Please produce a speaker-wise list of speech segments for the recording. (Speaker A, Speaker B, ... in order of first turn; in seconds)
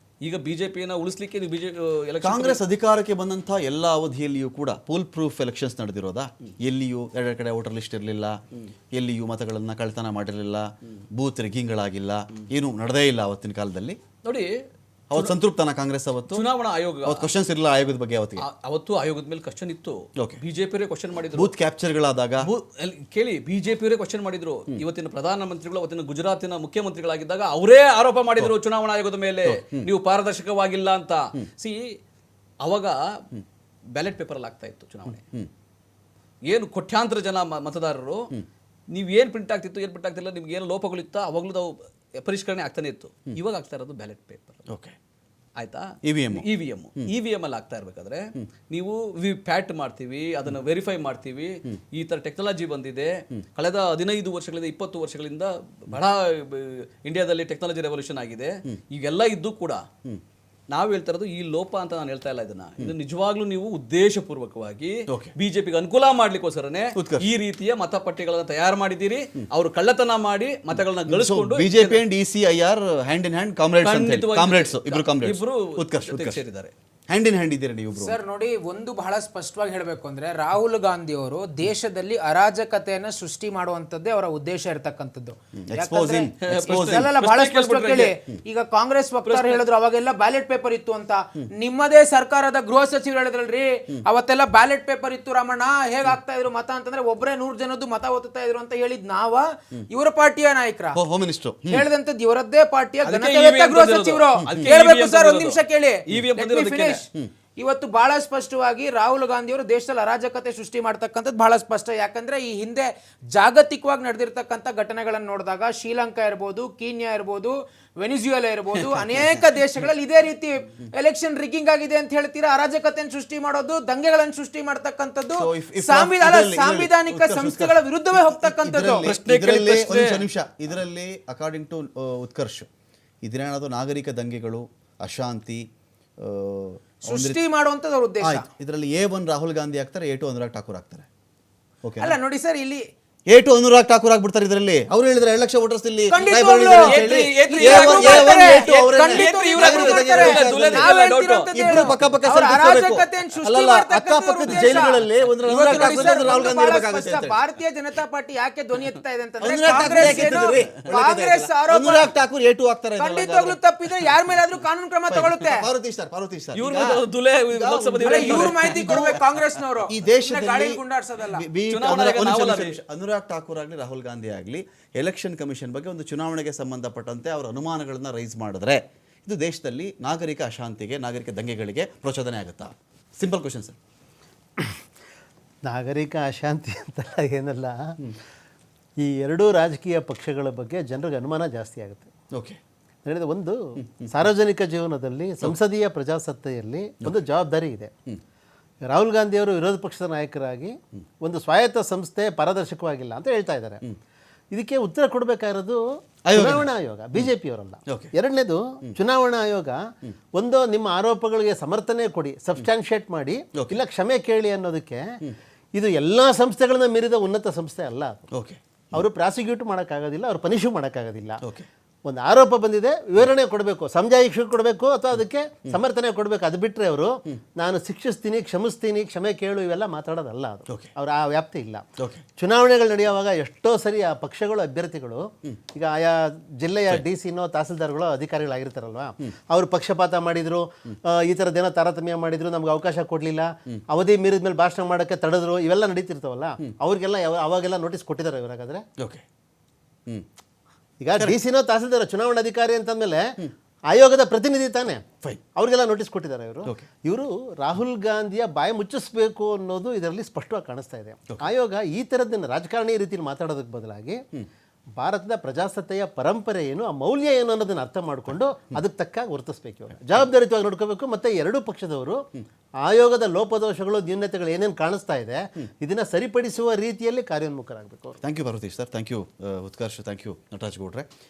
Speaker A: 0.2-2.6, 14.2-14.6, 16.3-17.3, 18.4-21.5, 22.4-32.0, 32.6-33.2, 33.9-35.2, 36.5-38.3, 38.9-44.7, 45.6-59.9, 60.7-72.0, 73.8-76.7, 86.4-88.2, 89.2-89.6, 103.0-107.0, 118.8-119.0, 129.0-130.3, 146.8-151.5, 155.6-156.3, 160.0-160.3, 166.6-169.2, 171.7-172.8
Speaker B: 2.2-8.4, 8.9-14.0, 15.1-16.5, 17.0-18.4, 21.3-22.5, 29.4-29.9, 44.7-45.0, 46.0-46.5, 65.1-65.3, 67.0-67.3, 71.1-76.4, 77.1-78.2, 85.6-87.1, 100.9-101.9, 125.3-132.7, 133.2-135.7, 136.2-137.4, 138.2-141.1, 141.8-142.2, 143.3-150.9, 151.5-157.4, 159.4-163.6, 165.1-169.2, 169.9-183.8, 192.3-192.6, 193.8-194.1, 206.2-207.3, 207.9-208.1, 218.3-218.6, 221.4-221.7, 232.0-232.2, 249.0-249.2, 278.2-281.1
Speaker C: 78.0-101.0, 101.7-129.1, 137.0-138.5, 142.0-142.8, 146.1-162.1, 163.0-165.7, 168.0-171.5
Speaker D: 185.7-187.9, 189.0-192.1, 193.1-197.9, 198.9-203.8, 204.5-209.8, 210.3-215.1, 215.7-218.3, 218.9-221.4, 222.1-231.8, 232.4-248.8, 251.0-253.3, 253.9-264.2, 265.0-272.2, 272.8-278.2